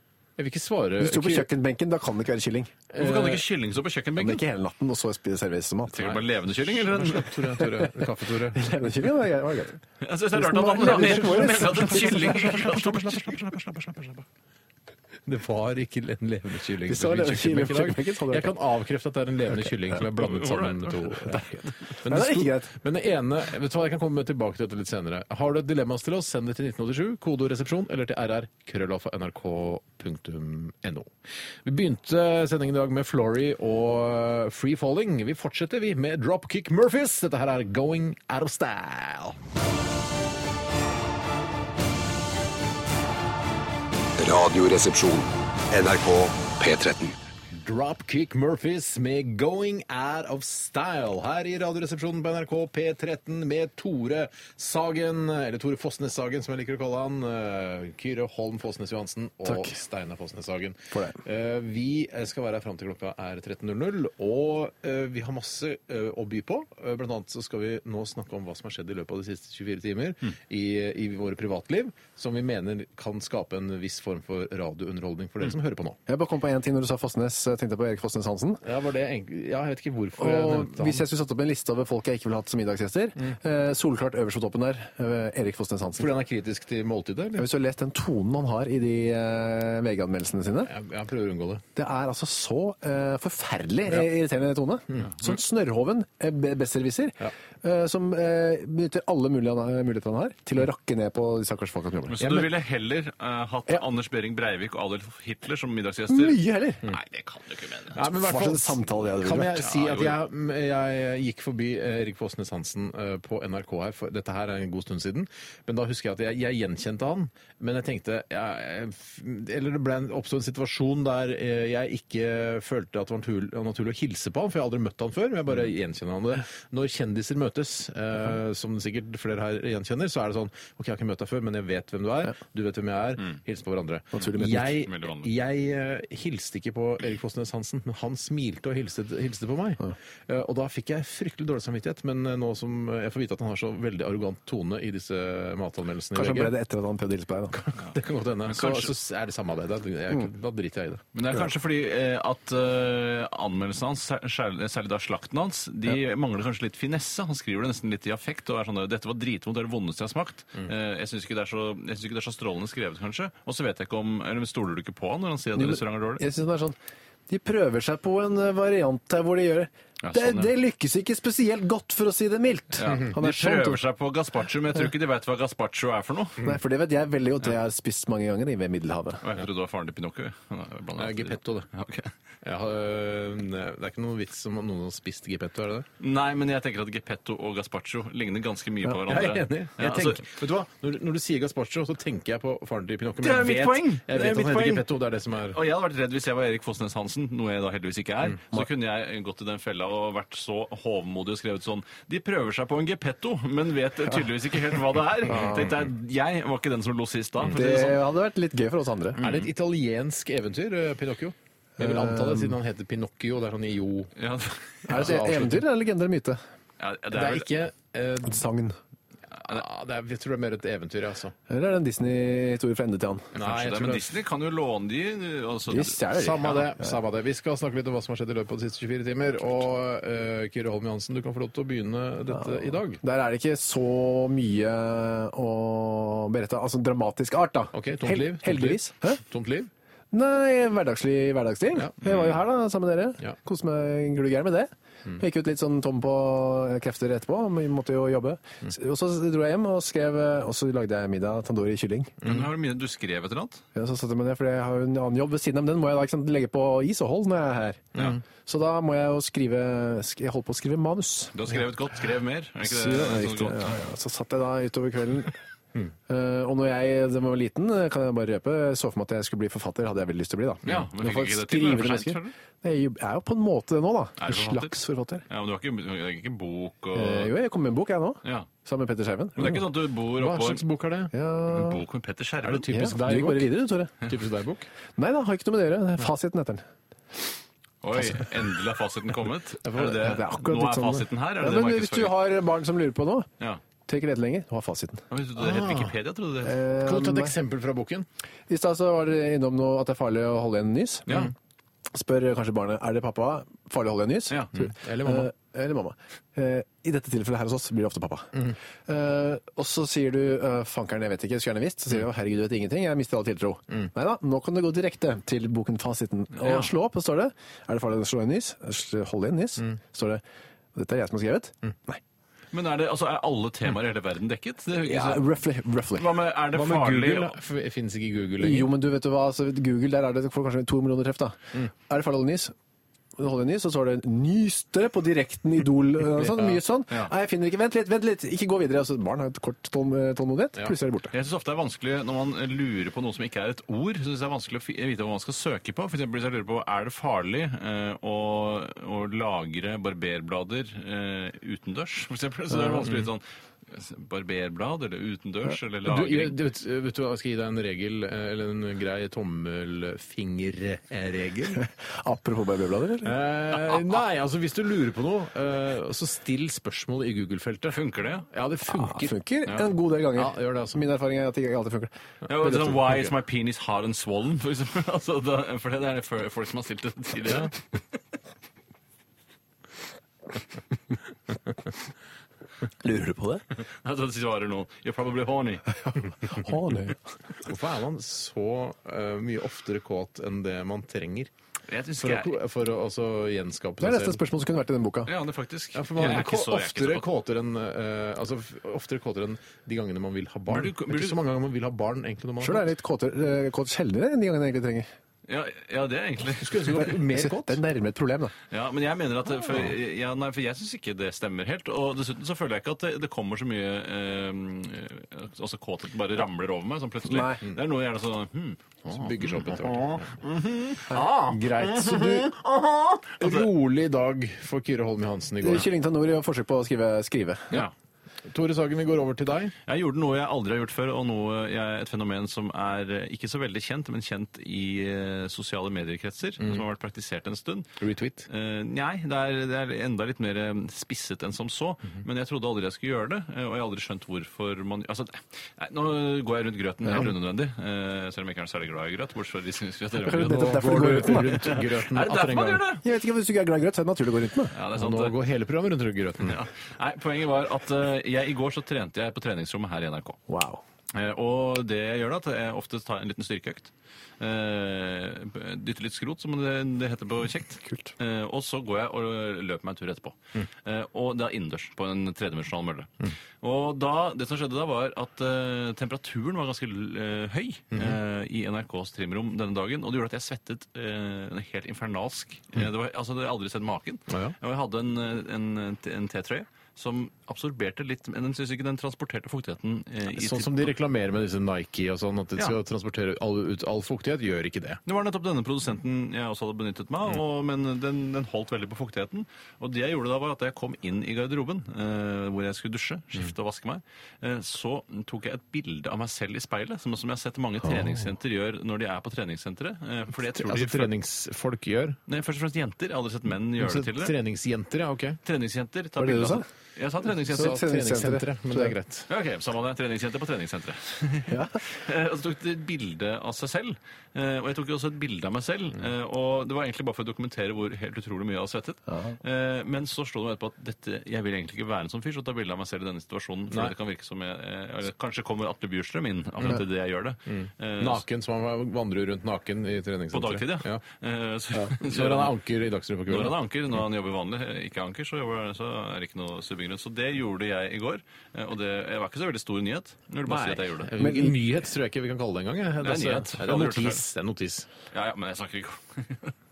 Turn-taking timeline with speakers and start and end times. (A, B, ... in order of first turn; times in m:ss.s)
0:00.4-0:01.5 A
0:01.0-0:02.7 B
0:02.9-0:03.4 A
0:03.0-0:04.4 C
0:04.2-0:06.0 B
0:05.9-0:07.4 C
0:06.0-0:08.6 A
0:07.6-0:07.9 B
0:08.5-0:09.8 B
0:10.0-0:14.0 C
0:10.3-0:12.6 B
0:10.8-0:14.1 A
0:15.2-0:21.5 A
0:16.8-0:18.5 B
0:20.0-0:21.5 C
0:22.0-0:31.1 A
0:22.0-0:22.7 B
0:31.6-0:39.4 A
0:44.2-0:47.1 D
0:47.5-1:16.0 A
0:59.4-0:59.7 B
1:00.9-1:01.2 B
1:16.1-1:18.6 B
1:18.6-1:21.0 A
1:20.2-1:26.1 B
1:26.0-1:27.5 A
1:27.4-1:30.7 B
1:30.6-1:31.6 A
1:31.8-1:42.2 B
1:42.1-1:48.0 C
1:42.2-1:42.5 A
1:46.1-1:46.8 B
1:47.9-2:26.5 A
1:48.1-1:49.6 B
1:49.6-1:50.2 C
2:14.2-2:14.8 B
2:14.8-2:15.3 C
2:26.1-2:27.5 B
2:27.5-2:31.0 A
2:28.5-2:28.9 C
2:31.1-2:46.2 C
2:45.6-2:46.8 B
2:47.3-2:53.8 B
2:50.0-2:50.5 C
2:52.8-2:56.4 C
2:56.4-2:59.2 B
2:59.2-3:02.1 C
3:01.0-3:01.7 A
3:02.4-3:05.9 A
3:06.0-3:10.3 C
3:09.0-3:15.6 A
3:13.2-3:14.8 C
3:15.5-3:28.0 C
3:25.3-3:25.7 B
3:27.5-3:29.2 B
3:29.2-3:34.1 A
3:29.2-3:29.5 C
3:31.8-3:32.6 B
3:34.2-3:35.2 C
3:34.9-3:36.4 B
3:34.9-3:35.6 A
3:36.8-3:37.5 C
3:37.1-3:38.4 A
3:38.2-3:38.8 B
3:39.4-3:41.3 A
3:41.5-3:43.3 B
3:43.3-3:44.1 A
3:43.4-3:46.6 C
3:45.7-3:46.9 B
3:46.1-3:53.0 A
3:52.3-3:59.2 B
3:57.7-3:59.7 A
4:00.1-4:12.1 B
4:01.7-4:02.0 A
4:12.2-4:12.5 A
4:12.2-4:13.6 C
4:13.7-4:17.8 B
4:17.9-4:18.2 A
4:18.4-4:21.6 B
4:21.3-4:23.8 C
4:22.6-4:25.4 B
4:26.1-4:35.2 B
4:30.6-4:32.3 C
4:34.2-4:34.7 C
4:35.3-4:37.3 C
4:36.9-4:39.6 B
4:39.4-4:40.6 C
4:40.2-4:41.1 A
4:41.1-4:41.8 B
4:41.5-4:42.7 C
4:42.4-4:43.5 A
4:42.7-4:43.9 B
4:44.0-4:44.7 A
4:45.0-4:46.6 B
4:47.8-4:52.1 C
4:49.6-4:50.1 A
4:49.8-4:53.3 B
4:53.9-4:55.0 B
4:55.1-4:56.6 C
4:55.4-4:55.9 A
4:56.4-4:57.3 B
4:56.8-4:58.0 A
4:58.5-5:01.1 B
5:01.9-5:08.3 B
5:04.6-5:05.3 A
5:08.9-5:20.2 B
5:16.4-5:16.7 C
5:20.7-5:22.0 B
5:22.5-5:25.2 C
5:24.8-5:26.1 B
5:26.0-5:27.4 C
5:26.5-5:28.7 A
5:28.4-5:31.4 B
5:31.9-5:32.5 B
5:33.2-5:41.1 B
5:36.4-5:37.1 C
5:41.1-5:56.4 C
5:52.5-5:52.8 B
5:55.8-6:01.6 A
6:01.6-6:03.1 B
6:03.0-6:09.2 A
6:03.6-6:03.9 C
6:07.7-6:08.3 C
6:08.7-6:11.9 B
6:10.1-6:10.8 A
6:12.2-6:13.1 A
6:12.3-6:17.6 C
6:22.8-6:23.4 B
6:23.8-6:25.8 C
6:26.2-6:27.0 B
6:27.4-6:31.3 A
6:31.7-6:32.4 C
6:32.0-6:34.2 A
6:33.8-6:35.1 B
6:35.0-6:37.0 C
6:35.7-6:42.7 A
6:40.5-6:41.2 C
6:42.4-6:44.9 B
6:45.3-6:46.9 C
6:46.3-6:47.6 A
6:47.1-6:48.3 B
6:48.5-7:00.0 C
6:57.0-6:57.4 B
6:58.9-7:05.7 A
7:00.9-7:02.3 B
7:03.2-7:03.5 C
7:05.4-7:07.5 B
7:08.3-7:09.5 A
7:09.6-7:17.7 C
7:17.8-7:18.3 A
7:18.3-7:32.8 C
7:30.0-7:31.5 B
7:30.2-7:32.6 A
7:32.8-7:34.5 B
7:34.5-7:35.1 C
7:34.7-7:36.4 A
7:36.2-7:40.2 C
7:40.3-7:40.6 B
7:40.9-7:52.9 C
7:47.6-7:47.9 B
7:53.4-8:10.7 C
7:57.7-7:58.0 A
8:04.1-8:04.3 A
8:10.1-8:14.8 A
8:14.8-8:30.9 C
8:30.3-8:32.0 A
8:32.1-8:34.1 C
8:33.6-8:35.2 A
8:35.2-8:37.6 C
8:36.0-8:36.4 B
8:37.3-8:39.1 A
8:37.3-8:38.7 B
8:39.1-8:58.0 C
8:41.3-8:41.6 B
8:48.9-8:49.2 B
8:57.3-9:00.8 A
9:00.1-9:02.3 C
9:01.8-9:03.4 A
9:03.1-9:10.9 C
9:10.2-9:14.7 A
9:11.0-9:11.3 B
9:12.8-9:14.0 C
9:14.9-9:16.3 C